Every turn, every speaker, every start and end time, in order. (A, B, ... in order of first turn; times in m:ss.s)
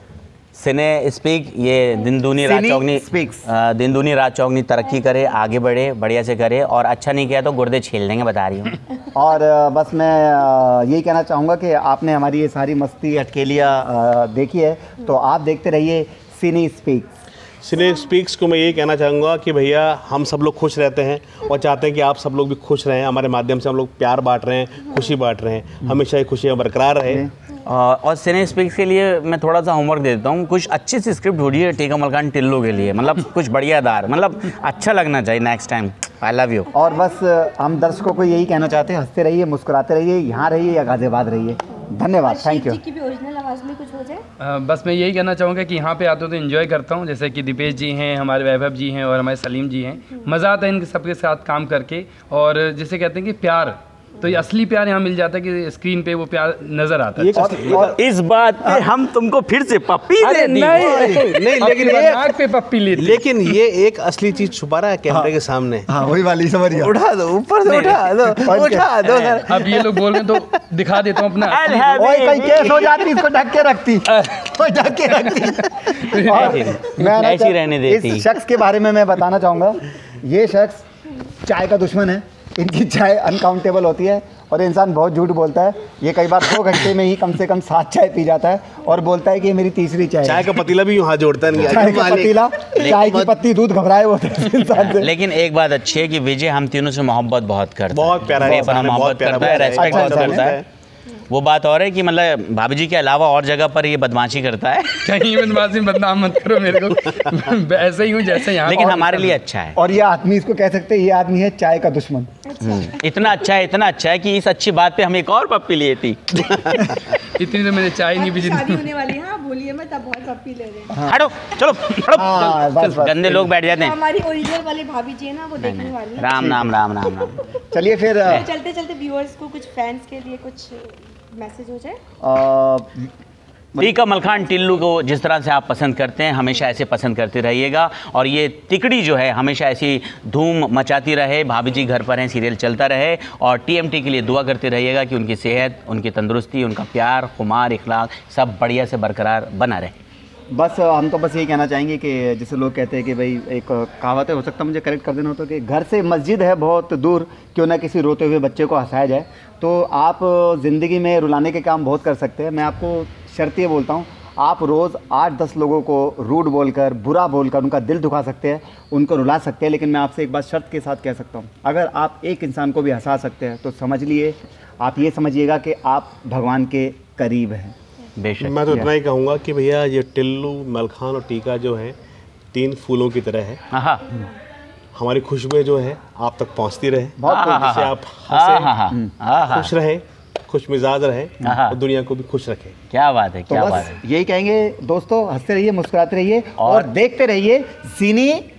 0:00.5-0:08.7 A
0:02.4-0:03.4 B
0:09.1-0:17.1 B
0:17.6-0:27.3 C
0:27.6-0:36.7 A
0:36.7-0:42.8 B
0:36.8-0:37.0 D
0:42.2-0:44.2 D
0:44.4-0:57.4 E
0:57.2-0:58.0 C
0:57.4-0:58.0 B
0:57.9-1:01.2 A
1:00.2-1:03.3 E
1:00.8-1:01.2 B
1:00.8-1:02.3 C
1:02.9-1:05.9 C
1:05.9-1:06.9 B
1:06.7-1:10.2 C
1:07.6-1:08.0 A
1:08.2-1:08.9 B
1:09.0-1:09.4 A
1:09.4-1:12.0 E
1:11.4-1:13.0 A
1:12.0-1:20.8 B
1:14.1-1:14.4 E
1:15.2-1:17.0 E
1:16.4-1:16.7 C
1:17.0-1:18.2 A
1:21.4-1:30.6 B
1:30.2-1:33.3 C
1:31.7-1:35.1 B
1:34.7-1:40.6 A
1:37.9-1:40.6 C
1:38.4-1:38.8 B
1:39.4-1:40.5 B
1:41.3-1:45.0 A
1:45.0-1:49.4 E
1:48.6-1:49.8 A
1:49.8-1:52.3 B
1:52.5-1:53.3 D
1:52.6-1:56.9 A
1:57.3-1:58.8 E
1:58.1-2:01.0 D
2:00.9-2:01.2 B
2:01.0-2:02.3 A
2:02.1-2:03.5 B
2:02.3-2:03.0 E
2:03.0-2:03.9 A
2:03.7-2:07.3 D
2:05.6-2:07.4 A
2:06.3-2:06.6 B
2:07.7-2:08.5 B
2:08.2-2:12.0 D
2:12.2-2:13.1 B
2:13.8-2:29.9 A
2:30.5-2:57.7 B
2:58.2-2:58.8 A
2:58.4-3:02.0 C
3:02.5-3:03.6 C
3:03.7-3:04.0 A
3:04.9-3:08.7 C
3:07.2-3:07.7 B
3:07.4-3:09.7 A
3:09.5-3:12.8 C
3:11.4-3:11.8 A
3:12.9-3:14.0 A
3:13.5-3:18.4 B
3:16.6-3:16.9 A